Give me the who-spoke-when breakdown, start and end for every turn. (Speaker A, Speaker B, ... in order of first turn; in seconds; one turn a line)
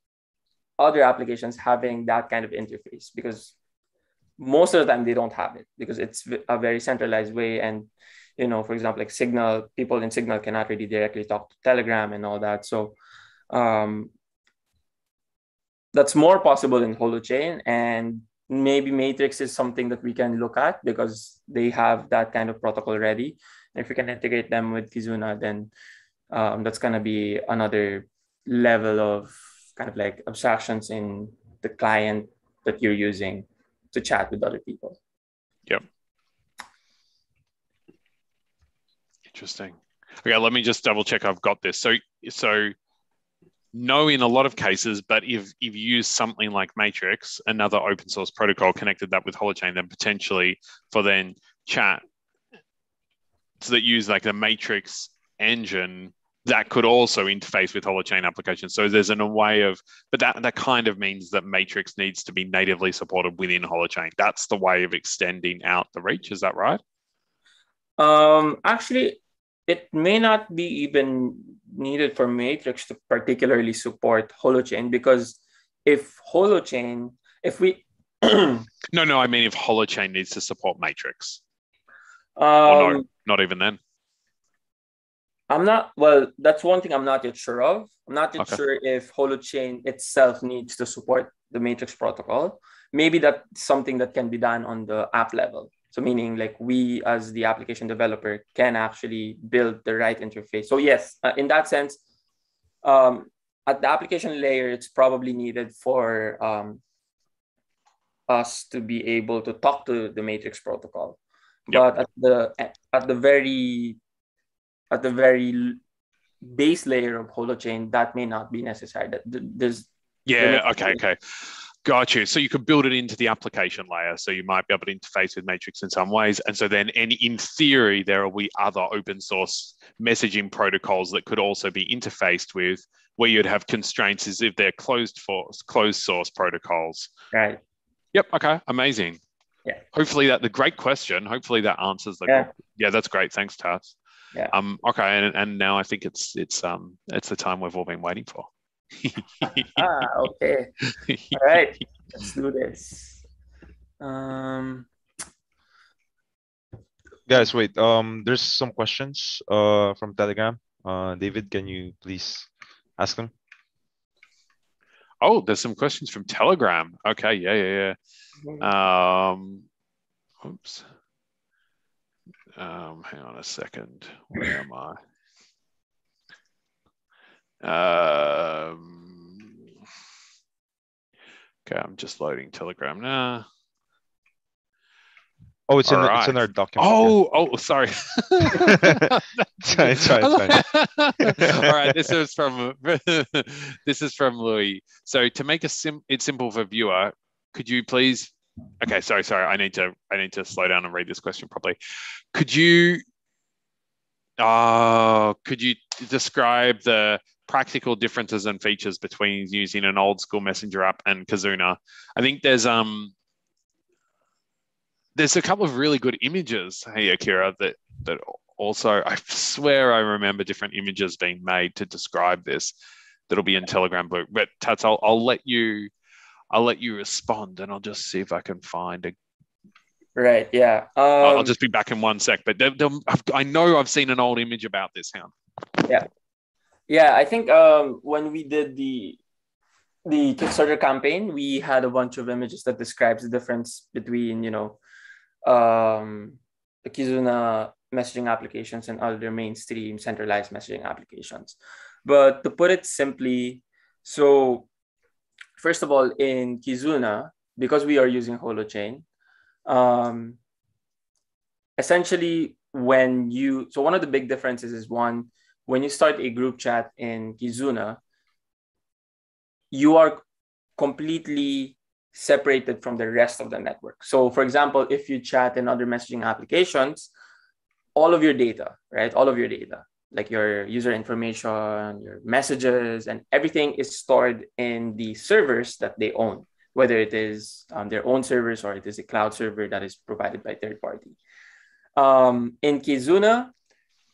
Speaker A: 0.8-3.5
Speaker A: 4.4-13.0
Speaker A: 13.5-14.1
Speaker A: 15.9-25.7
Speaker A: 26.3-35.0
Speaker B: 39.3-42.7
Speaker B: 43.7-52.0
Speaker B: 53.6-66.8
Speaker A: 68.0-78.7
Speaker B: 78.9-81.4
Speaker A: 82.4-83.0
Speaker B: 82.7-83.8
Speaker A: 85.5-102.0
Speaker A: 102.8-106.8
Speaker A: 108.3-114.0
Speaker A: 114.9-115.8
Speaker A: 116.4-121.0
Speaker B: 120.2-137.1
Speaker A: 137.3-137.6
Speaker B: 138.1-139.2
Speaker B: 139.9-143.9
Speaker B: 144.5-149.8
Speaker A: 149.4-150.7
Speaker B: 151.1-151.4
Speaker A: 151.3-153.2
Speaker A: 154.0-154.9
Speaker C: 157.3-163.3
Speaker B: 165.2-168.0
Speaker B: 168.6-169.6
Speaker B: 170.4-170.8
Speaker B: 172.6-175.0
Speaker B: 177.6-179.5
Speaker B: 181.7-183.4
Speaker C: 185.7-187.1
Speaker B: 185.8-201.8
Speaker C: 188.5-189.1
Speaker C: 189.6-190.6
Speaker C: 191.2-192.1
Speaker B: 202.3-203.0
Speaker B: 204.4-213.1
Speaker B: 215.1-222.7
Speaker B: 223.3-225.9
Speaker B: 226.5-229.1
Speaker A: 230.2-231.5
Speaker B: 231.2-235.3
Speaker A: 236.9-239.2
Speaker A: 240.0-244.8
Speaker A: 245.4-254.7
Speaker A: 255.6-259.0
Speaker A: 259.6-260.4
Speaker A: 261.8-268.0
Speaker A: 269.7-270.2
Speaker A: 270.8-277.1
Speaker A: 277.9-291.2
Speaker A: 291.9-293.5